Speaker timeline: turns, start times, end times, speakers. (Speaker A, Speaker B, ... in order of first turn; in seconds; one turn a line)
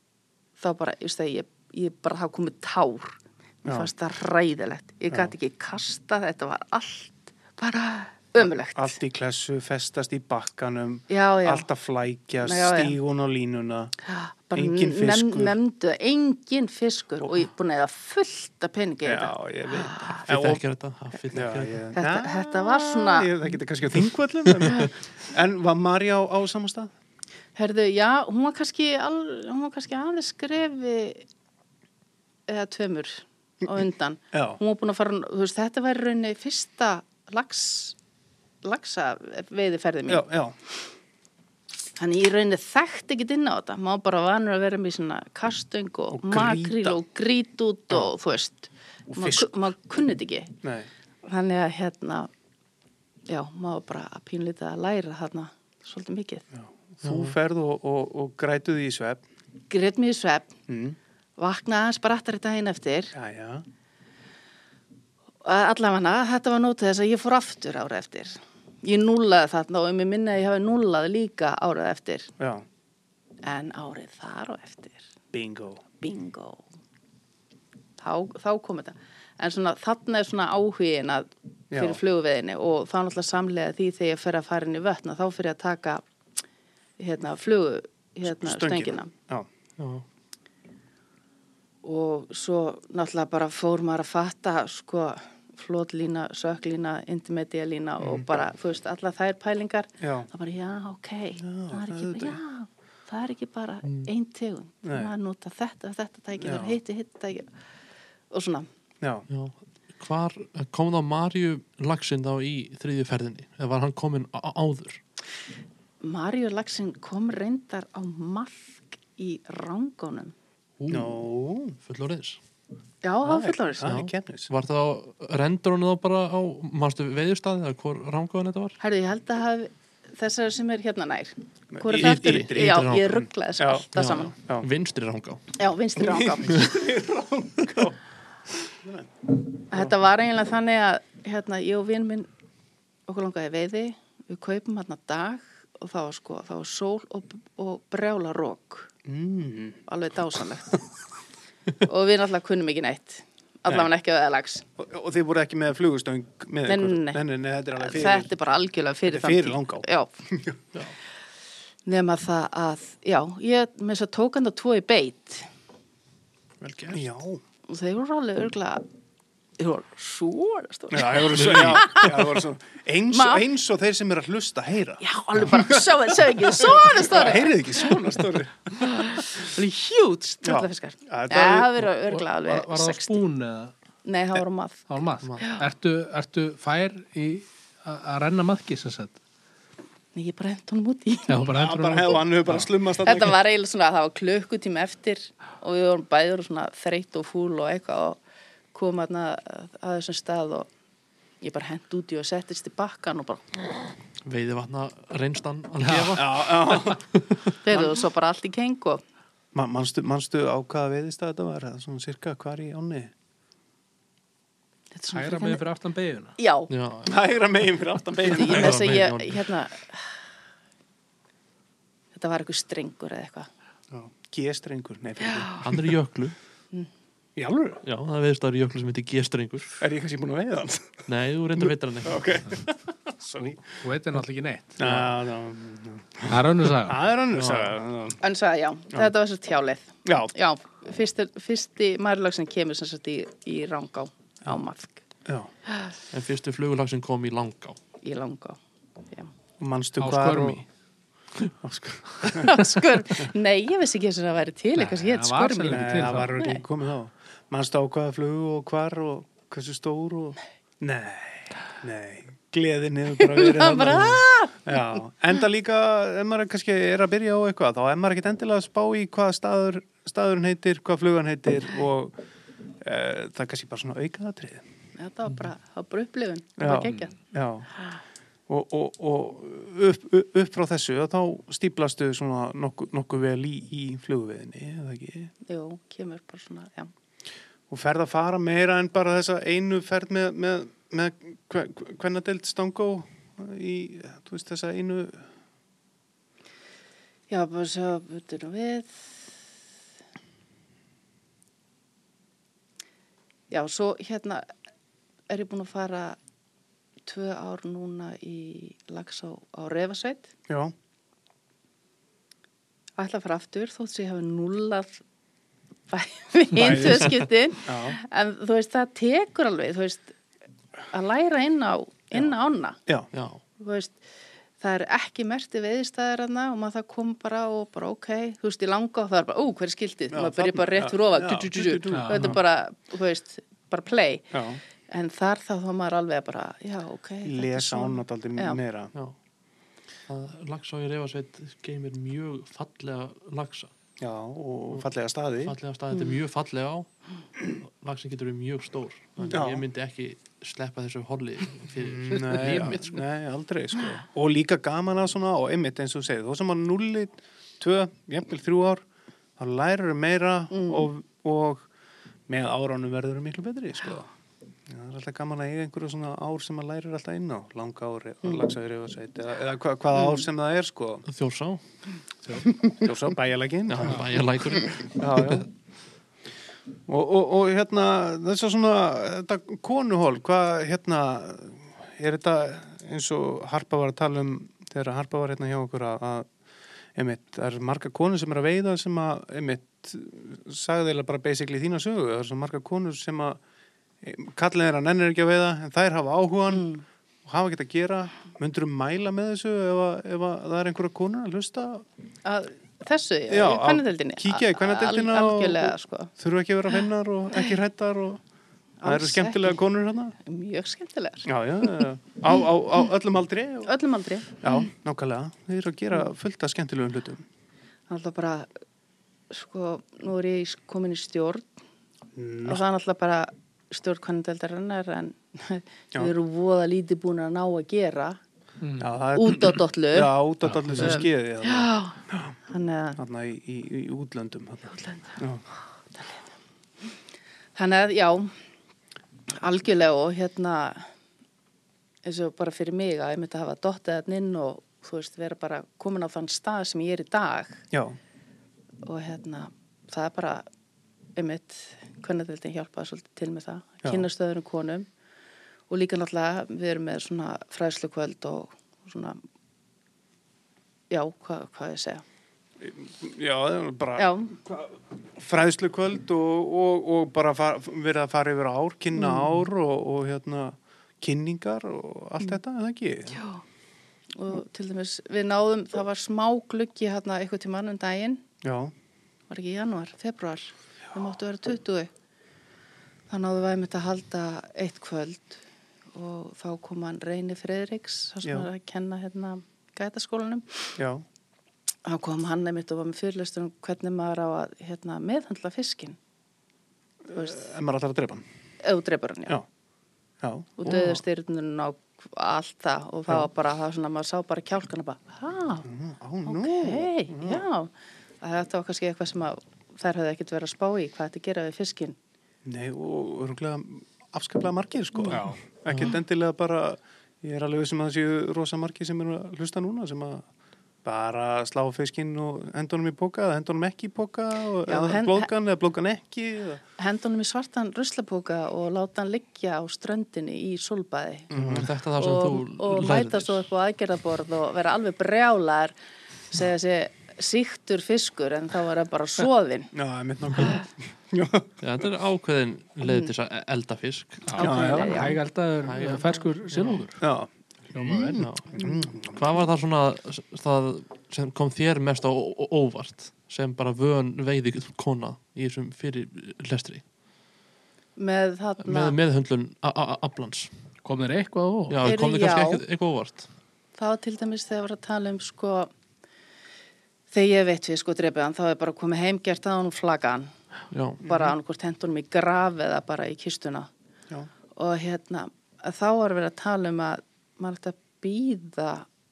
Speaker A: 0.6-8.9
Speaker B: 3.6-3.9
Speaker B: 8.4-13.9
Speaker A: 11.1-11.7
Speaker A: 12.4-12.9
Speaker A: 14.1-20.2
Speaker B: 14.5-15.6
Speaker B: 17.2-17.5
Speaker B: 19.0-20.6
Speaker C: 20.3-21.9
Speaker B: 21.3-26.9
Speaker A: 21.9-23.3
Speaker A: 27.6-31.2
Speaker A: 32.5-38.0
Speaker B: 34.3-34.6
Speaker A: 38.6-40.3
Speaker B: 40.1-40.5
Speaker A: 42.0-50.5
Speaker B: 46.1-47.0
Speaker B: 49.1-49.6
Speaker B: 50.6-50.9
Speaker A: 51.2-52.3
Speaker A: 53.3-56.4
Speaker B: 56.5-59.2
Speaker C: 57.0-57.3
Speaker A: 59.7-60.5
Speaker B: 60.7-61.0
Speaker A: 61.4-63.1
Speaker B: 63.1-63.6
Speaker A: 65.4-72.3
Speaker B: 72.4-72.6
Speaker A: 73.4-75.0
Speaker B: 75.3-75.8
Speaker A: 76.0-76.6
Speaker A: 78.0-86.0
Speaker B: 81.7-82.0
Speaker A: 87.0-89.1
Speaker B: 88.2-89.5
Speaker C: 89.8-90.0
Speaker A: 91.8-107.5
Speaker B: 98.0-98.2
Speaker B: 100.0-100.3
Speaker B: 101.4-102.4
Speaker C: 103.8-104.1
Speaker B: 104.8-105.1
Speaker B: 106.3-106.8
Speaker A: 108.3-108.7
Speaker B: 109.0-109.2
Speaker C: 109.3-115.0
Speaker A: 116.0-120.3
Speaker C: 120.8-121.2
Speaker B: 120.9-121.8
Speaker C: 121.8-122.4
Speaker A: 123.0-123.9
Speaker B: 123.2-124.5
Speaker C: 123.8-128.8
Speaker A: 128.8-134.3
Speaker B: 131.7-132.9
Speaker C: 131.9-133.2
Speaker B: 133.6-134.7
Speaker C: 133.9-135.4
Speaker A: 135.6-136.8
Speaker B: 136.0-138.0
Speaker B: 138.7-139.1
Speaker A: 139.7-142.3
Speaker A: 143.1-148.9
Speaker B: 149.1-149.8
Speaker A: 149.9-150.8
Speaker A: 151.8-154.6
Speaker B: 154.8-158.3
Speaker A: 156.7-157.2
Speaker A: 157.8-160.1
Speaker B: 159.1-160.6
Speaker A: 161.8-165.5
Speaker C: 166.6-167.0
Speaker B: 166.9-167.4
Speaker A: 167.7-168.8
Speaker A: 169.6-172.3
Speaker B: 170.9-178.9
Speaker C: 171.3-171.9
Speaker A: 173.1-173.4
Speaker A: 175.0-178.0
Speaker A: 178.8-183.2
Speaker B: 180.4-181.9
Speaker D: 182.1-183.7
Speaker A: 184.0-184.8
Speaker D: 184.9-189.2
Speaker C: 185.2-185.5
Speaker A: 190.1-191.4
Speaker D: 191.3-192.7
Speaker B: 191.5-193.4
Speaker A: 193.0-198.2
Speaker A: 198.7-200.7
Speaker A: 201.4-203.4
Speaker C: 204.2-207.5
Speaker D: 205.8-206.2
Speaker B: 206.1-207.0
Speaker A: 207.6-209.0
Speaker B: 209.5-213.1
Speaker A: 214.9-215.6
Speaker D: 215.1-216.4
Speaker A: 216.4-216.7
Speaker C: 216.7-217.1
Speaker B: 217.0-218.9
Speaker C: 218.3-219.5
Speaker A: 218.3-220.0
Speaker A: 222.1-223.5
Speaker B: 223.9-225.9
Speaker A: 225.3-225.5
Speaker C: 225.6-226.4
Speaker B: 227.3-227.8
Speaker C: 227.8-229.8
Speaker B: 229.8-231.0
Speaker C: 231.1-232.4
Speaker B: 231.6-233.7
Speaker D: 233.4-235.1
Speaker B: 234.8-238.2
Speaker D: 236.3-237.0
Speaker C: 237.3-237.7
Speaker A: 238.2-245.0
Speaker B: 240.1-240.3
Speaker B: 245.2-245.5
Speaker C: 246.1-247.8
Speaker A: 248.0-248.6
Speaker B: 249.6-250.6
Speaker D: 250.0-250.7
Speaker B: 251.6-252.6
Speaker A: 252.4-256.6
Speaker D: 254.8-256.3
Speaker B: 255.7-272.2
Speaker A: 263.2-264.8
Speaker B: 272.8-274.6
Speaker A: 275.0-277.1
Speaker B: 276.6-277.7
Speaker B: 278.5-285.3
Speaker A: 285.5-286.9
Speaker B: 287.7-295.3
Speaker A: 297.3-299.2
Speaker A: 303.5-304.4
Speaker A: 305.3-306.2
Speaker A: 307.0-310.3
Speaker A: 313.0-315.0
Speaker A: 315.9-320.1
Speaker B: 316.5-318.0
Speaker A: 320.9-322.8
Speaker C: 323.1-323.4
Speaker A: 323.6-324.0
Speaker A: 324.6-334.3
Speaker B: 330.1-332.4
Speaker D: 331.9-332.3
Speaker B: 334.3-334.6
Speaker A: 334.9-338.6
Speaker B: 337.2-338.9
Speaker C: 340.1-343.7
Speaker B: 344.0-345.6
Speaker C: 345.4-346.9
Speaker C: 347.5-352.9
Speaker B: 349.3-349.6
Speaker B: 351.8-358.8
Speaker B: 359.4-361.6
Speaker A: 360.5-360.9
Speaker B: 362.3-364.1
Speaker B: 364.7-371.0
Speaker A: 369.9-370.2
Speaker C: 371.1-371.6
Speaker B: 372.4-374.2
Speaker C: 373.7-375.5
Speaker B: 374.9-375.5
Speaker B: 376.9-386.3
Speaker B: 386.9-393.4
Speaker B: 394.0-396.7
Speaker A: 396.5-396.8
Speaker B: 397.2-401.9
Speaker A: 402.2-406.1
Speaker B: 403.3-408.2
Speaker A: 408.8-409.6
Speaker B: 408.8-410.1
Speaker A: 410.2-411.8
Speaker B: 411.2-413.7
Speaker A: 413.6-414.6
Speaker B: 414.4-417.2
Speaker A: 417.9-418.5
Speaker A: 419.3-421.5
Speaker B: 422.1-422.6
Speaker A: 422.5-428.2
Speaker D: 428.6-428.9
Speaker B: 428.8-432.3
Speaker A: 429.1-430.1
Speaker D: 430.5-431.0
Speaker A: 430.8-431.9
Speaker A: 432.5-433.0
Speaker B: 433.0-435.4
Speaker A: 434.7-435.1
Speaker A: 435.9-436.2
Speaker A: 437.5-438.3
Speaker A: 439.4-440.9
Speaker A: 442.0-447.6
Speaker B: 447.7-448.0
Speaker A: 448.8-450.4
Speaker A: 451.1-454.9
Speaker A: 455.7-459.2
Speaker A: 460.9-462.0
Speaker B: 462.6-473.2
Speaker A: 464.0-464.3
Speaker A: 469.0-469.2
Speaker A: 473.1-473.4
Speaker A: 474.1-478.2
Speaker B: 478.4-478.7
Speaker A: 479.3-481.9
Speaker A: 483.1-485.4
Speaker A: 485.9-490.8
Speaker B: 488.2-488.5
Speaker B: 490.8-491.0
Speaker A: 491.8-496.0
Speaker B: 497.0-498.2
Speaker A: 497.1-497.4
Speaker A: 498.6-499.4
Speaker B: 500.2-501.0
Speaker A: 500.6-505.6
Speaker B: 505.6-507.5
Speaker A: 506.2-511.9
Speaker B: 512.4-520.2
Speaker D: 515.1-515.4
Speaker B: 520.8-526.6
Speaker A: 524.7-525.3
Speaker A: 526.8-531.3
Speaker B: 531.3-531.7
Speaker C: 531.4-533.5
Speaker A: 532.0-535.7
Speaker A: 536.3-539.7
Speaker B: 539.7-541.9
Speaker C: 541.6-544.4
Speaker A: 542.8-543.1
Speaker D: 544.3-547.0
Speaker A: 544.4-545.2
Speaker B: 544.4-545.1
Speaker C: 545.6-546.8
Speaker B: 547.0-549.2
Speaker D: 547.7-548.2
Speaker C: 548.2-548.5
Speaker C: 549.1-556.8
Speaker A: 558.0-559.0
Speaker C: 558.6-560.5
Speaker D: 560.8-561.9
Speaker C: 561.7-563.3
Speaker A: 561.8-562.6
Speaker A: 563.8-565.7
Speaker A: 567.1-570.3
Speaker C: 570.7-571.0
Speaker B: 571.0-571.3
Speaker A: 571.0-573.7
Speaker A: 574.5-578.9